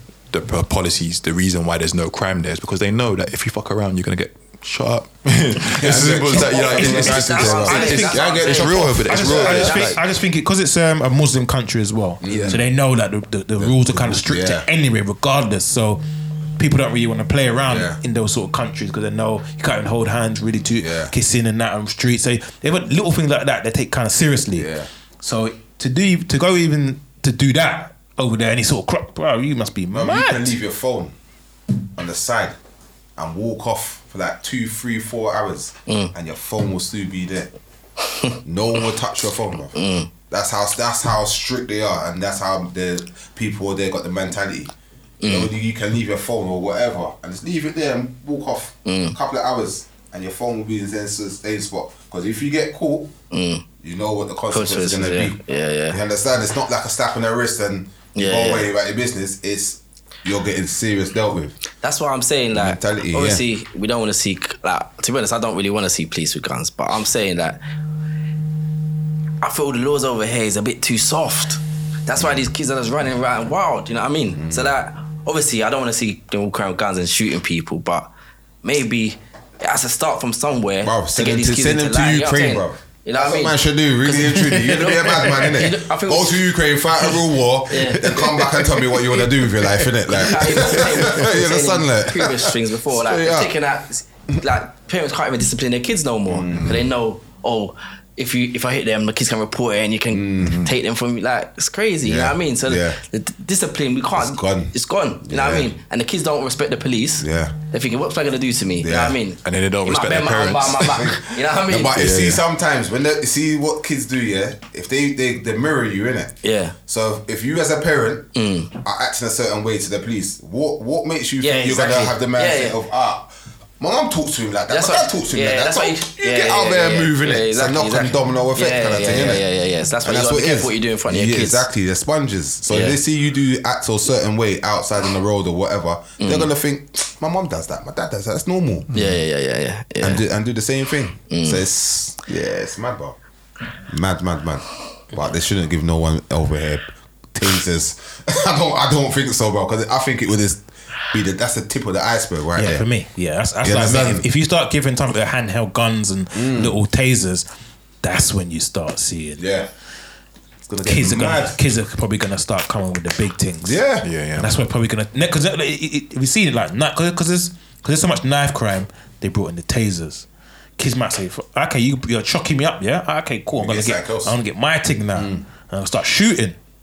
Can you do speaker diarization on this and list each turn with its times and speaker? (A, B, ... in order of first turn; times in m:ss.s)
0:00.3-0:10.0 A
0:05.7-0:09.8 B
0:06.0-0:09.8 C
0:09.0-0:16.0 D
0:12.2-0:12.6 B
0:12.2-0:12.6 A
0:13.6-0:14.7 B
0:16.6-0:24.7 D
0:17.6-0:18.0 B
0:20.8-0:21.1 B
0:24.6-0:24.9 B
0:25.2-0:30.5 D
0:29.9-0:31.1 B
0:32.0-0:32.6 B
0:33.2-0:37.5 B
0:38.4-0:39.8 B
0:39.7-0:40.1 C
0:40.3-0:44.7 B
0:45.2-0:45.5 C
0:45.2-0:53.1 B
0:48.8-0:49.2 C
0:53.3-0:53.6 C
0:53.8-1:01.6 B
0:54.5-0:56.0 C
0:58.1-0:58.7 C
1:01.8-1:07.6 C
1:02.5-1:03.4 B
1:09.4-1:18.1 C
1:12.2-1:12.4 B
1:14.4-1:14.7 B
1:18.6-1:26.5 C
1:20.8-1:33.5 B
1:27.7-1:52.2 C
1:36.3-1:36.8 B
1:40.1-1:40.6 B
1:40.4-1:40.7 A
1:42.0-1:43.0 B
1:44.1-1:44.7 B
1:45.3-1:45.7 B
1:47.2-1:47.6 B
1:48.8-1:49.2 B
1:49.4-1:51.1 A
1:50.8-1:56.3 B
1:51.9-1:52.4 A
1:56.4-1:56.8 C
1:56.9-2:09.4 B
1:58.3-1:58.7 C
2:01.4-2:02.8 C
2:04.7-2:11.6 C
2:10.0-2:18.9 B
2:12.7-2:13.0 C
2:16.2-2:16.5 C
2:18.9-2:20.2 C
2:20.0-2:23.2 B
2:21.3-2:21.6 C
2:23.9-2:32.9 B
2:32.6-2:37.4 D
2:33.6-2:34.3 B
2:36.3-2:36.7 B
2:38.0-2:39.4 D
2:39.4-2:39.7 B
2:40.6-2:41.6 B
2:40.8-2:43.8 D
2:43.6-2:44.1 B
2:44.0-2:44.5 A
2:44.4-2:50.3 D
2:50.8-2:56.6 D
2:53.5-2:54.4 B
2:55.1-2:55.4 B